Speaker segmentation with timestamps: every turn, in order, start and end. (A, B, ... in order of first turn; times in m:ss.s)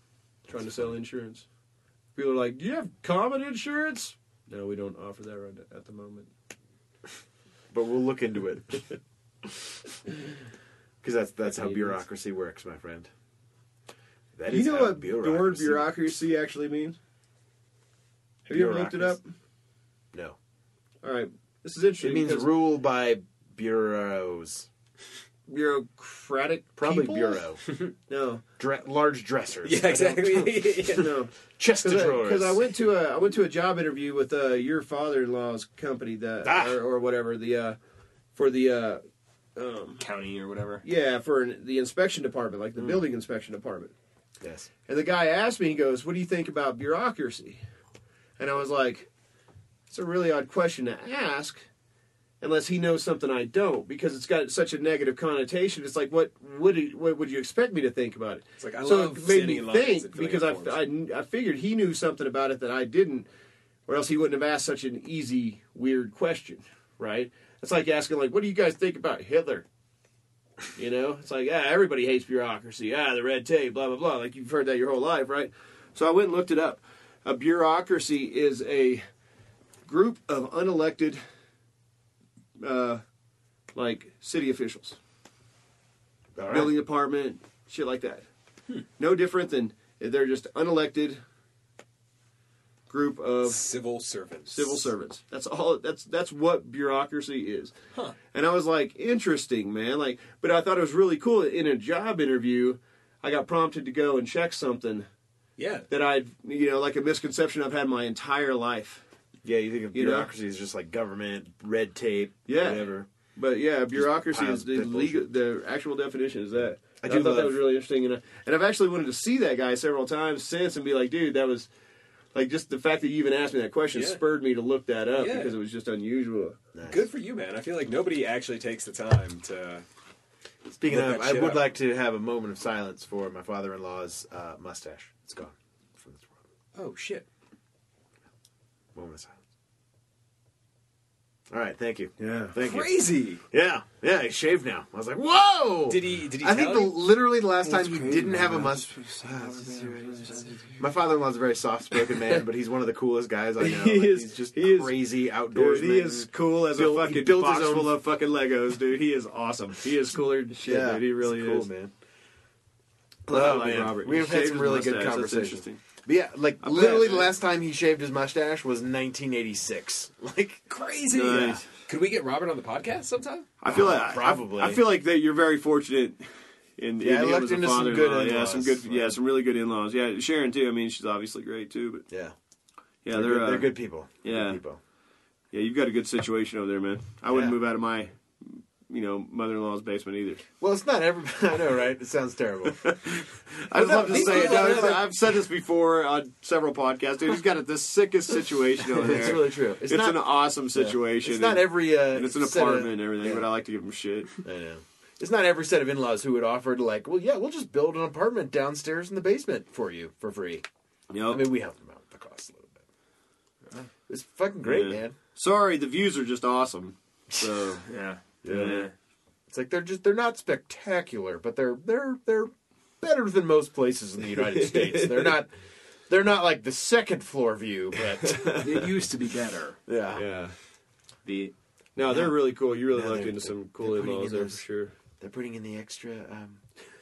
0:00.5-0:01.4 A
0:00.5-0:00.9 B
0:02.1-0:06.3 A
0:07.7-0:08.9 B
0:11.0-0:13.1 B
0:11.5-0:12.0 A
0:14.4-0:16.0 B
0:14.5-0:17.0 A
0:18.5-0:19.3 A
0:18.5-0:19.2 B
0:21.0-0:22.5 A
0:22.0-0:24.7 B
0:25.5-0:27.5 A
0:26.8-0:27.6 B
0:28.1-0:28.4 A
0:28.6-0:30.4 B
0:29.6-0:31.1 C
0:30.9-0:37.8 A
0:31.6-0:32.6 B
0:36.4-0:36.8 B
0:38.3-0:39.0 A
0:39.6-0:40.0 A
0:40.0-0:40.8 C
0:40.8-0:43.9 A
0:44.4-0:44.7 B
0:44.9-0:47.6 A
0:48.4-0:49.1 A
0:49.9-0:51.6 A
0:52.4-1:03.3 A
0:58.6-1:00.8 C
1:03.9-1:09.6 A
1:10.7-1:19.0 A
1:19.8-1:21.2 A
1:22.6-1:23.0 A
1:23.7-1:25.0 A
1:26.4-1:26.7 B
1:26.5-1:28.2 A
1:29.0-1:31.2 A
1:32.9-1:33.6 A
1:33.4-1:34.9 C
1:34.5-1:37.7 A
1:38.3-1:45.1 A
1:45.6-1:45.9 C
1:45.9-1:49.0 A
1:49.4-1:53.1 B
1:49.9-1:50.3 A
1:52.5-2:01.7 A
1:53.9-1:55.3 B
1:57.0-1:57.6 B
2:02.3-2:06.6 A
2:03.9-2:04.2 C
2:05.2-2:05.5 C
2:06.7-2:07.0 B
2:06.9-2:09.8 C
2:10.7-2:16.3 B
2:10.9-2:11.6 C
2:16.7-2:17.2 C
2:18.9-2:19.3 B
2:21.5-2:22.9 B
2:22.2-2:22.6 A
2:22.6-2:23.4 C
2:23.5-2:29.6 B
2:25.9-2:27.0 C
2:27.6-2:30.8 A
2:30.8-2:38.0 B
2:32.0-2:32.4 A
2:33.6-2:41.7 A
2:40.6-2:41.9 B
2:43.3-2:45.8 A
2:43.3-2:50.6 B
2:46.6-2:47.3 A
2:50.7-2:53.5 C
2:51.1-2:51.6 A
2:53.6-2:56.2 A
2:53.7-2:54.8 B
2:56.8-3:02.0 A
2:57.0-2:59.2 B
3:02.1-3:02.3 B
3:03.0-3:04.6 A
3:03.1-3:04.8 B
3:05.5-3:10.4 A
3:07.3-3:07.6 B
3:10.6-3:13.0 B
3:12.7-3:24.3 A
3:13.7-3:15.1 B
3:14.1-3:15.0 C
3:19.0-3:23.4 B
3:24.4-3:30.6 B
3:31.1-3:31.4 A
3:31.3-3:32.8 B
3:34.1-3:35.2 B
3:34.7-3:37.8 A
3:37.8-3:38.9 C
3:38.4-3:38.9 B
3:38.5-3:38.8 A
3:39.5-3:42.5 B
3:43.0-3:45.5 B
3:44.4-3:45.4 A
3:46.1-3:48.6 B
3:48.2-3:48.7 A
3:48.5-3:49.8 C
3:49.9-3:50.2 B
3:50.1-3:50.6 A
3:51.2-3:51.5 C
3:52.0-3:54.9 A
3:52.0-3:54.6 B
3:55.2-3:56.6 B